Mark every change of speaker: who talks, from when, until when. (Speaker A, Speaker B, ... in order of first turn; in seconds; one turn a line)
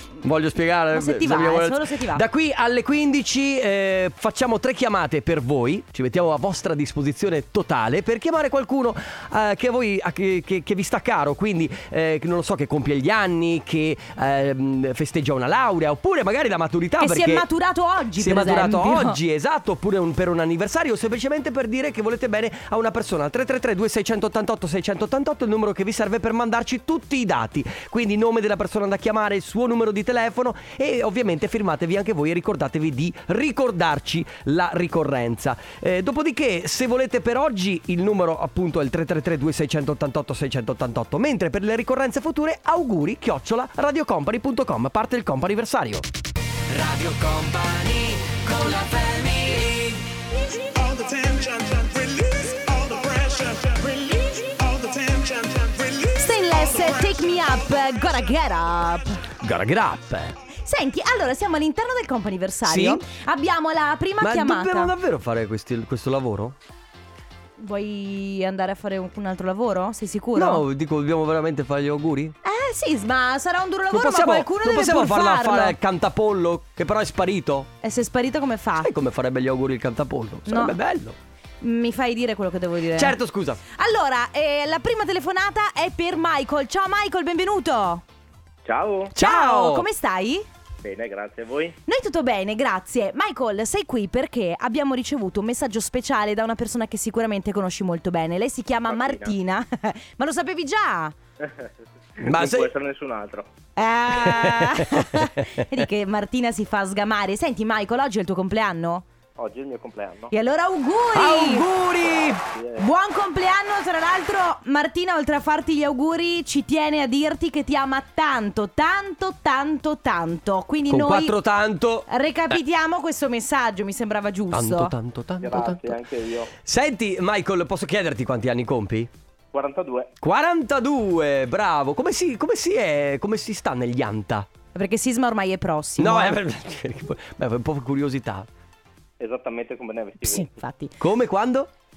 Speaker A: 0.2-17.4
Speaker B: 0.9-2.3
Speaker B: 17.0-19.2
Speaker A: 18.2-46.1
Speaker A: 46.7-50.1
Speaker C: 50.7-58.0
Speaker B: 56.2-59.3
Speaker A: 59.4-60.4
Speaker B: 60.6-65.0
Speaker A: 62.6-63.0
Speaker A: 64.2-66.6
Speaker B: 67.6-70.7
Speaker A: 70.4-72.3
Speaker B: 72.4-75.8
Speaker A: 73.9-77.7
Speaker B: 77.8-78.9
Speaker A: 78.8-81.2
Speaker B: 80.5-80.8
Speaker B: 81.6-88.0
Speaker A: 83.0-83.6
Speaker D: 88.6-89.1
Speaker A: 89.1-89.9
Speaker B: 89.1-90.5
Speaker D: 90.8-91.8
Speaker B: 91.9-101.1
Speaker D: 98.9-99.3
Speaker D: 101.4-103.5
Speaker A: 102.2-102.7
Speaker B: 103.8-109.0
Speaker A: 104.3-104.6
Speaker D: 109.4-110.3
Speaker B: 110.3-111.7
Speaker A: 111.2-112.4
Speaker D: 112.0-112.8
Speaker B: 112.8-121.4
Speaker A: 120.9-122.1
Speaker B: 122.1-125.0
Speaker A: 124.5-125.9
Speaker D: 125.4-126.5
Speaker A: 126.6-129.1
Speaker D: 129.5-130.1
Speaker A: 130.2-134.5
Speaker B: 134.8-136.4
Speaker A: 136.0-138.5
Speaker D: 139.2-140.5
Speaker B: 140.2-140.9
Speaker A: 141.0-141.7